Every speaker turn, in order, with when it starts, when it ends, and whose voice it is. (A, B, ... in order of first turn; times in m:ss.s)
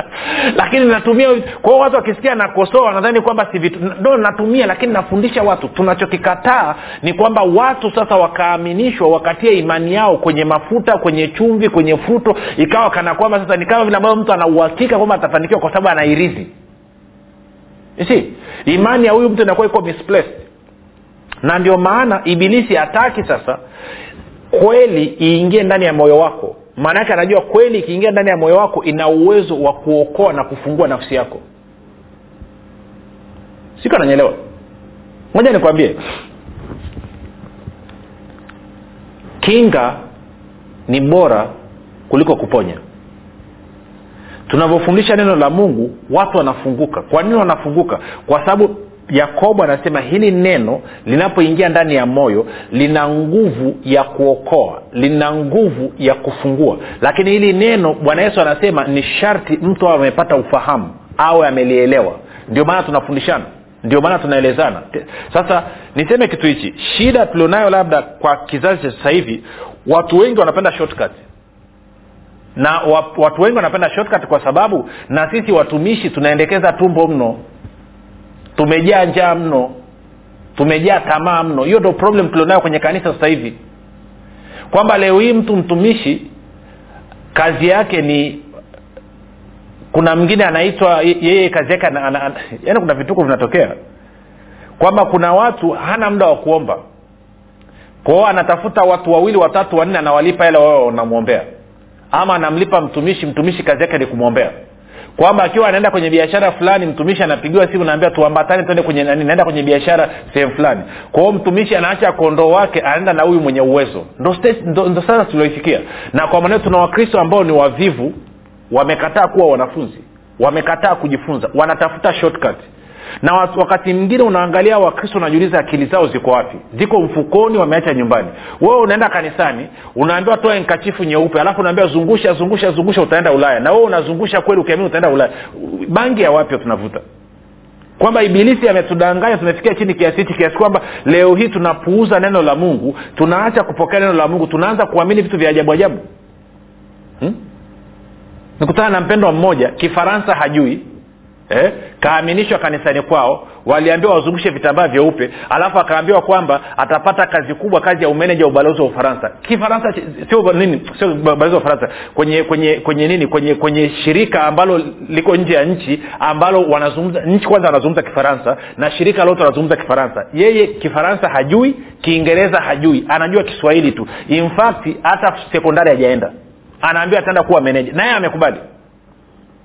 0:00.5-0:16.5 A
0:18.0-0:20.4 A
0:21.4-0:23.6 A
0:24.5-0:31.4 A
0:33.8-0:34.4 A
0:35.3-0:36.0 A
0:39.4-0:40.0 A
0:40.9-0:41.5 A
0:42.1-0:42.8 A
0:44.5-1:11.2 A
1:12.6-1:17.4 A
1:18.6-1:19.7 A
1:20.6-1:23.6 A
1:24.7-1:26.3 A
1:27.3-1:28.4 A
1:29.9-1:33.7 A
1:34.8-1:36.8 A
1:38.0-1:41.4 A
1:42.1-1:44.5 A
1:45.2-1:58.1 A
1:58.7-2:02.6 A
2:03.2-2:17.0 A
2:18.0-2:26.0 A
2:28.6-2:30.9 A
2:31.5-2:58.6 A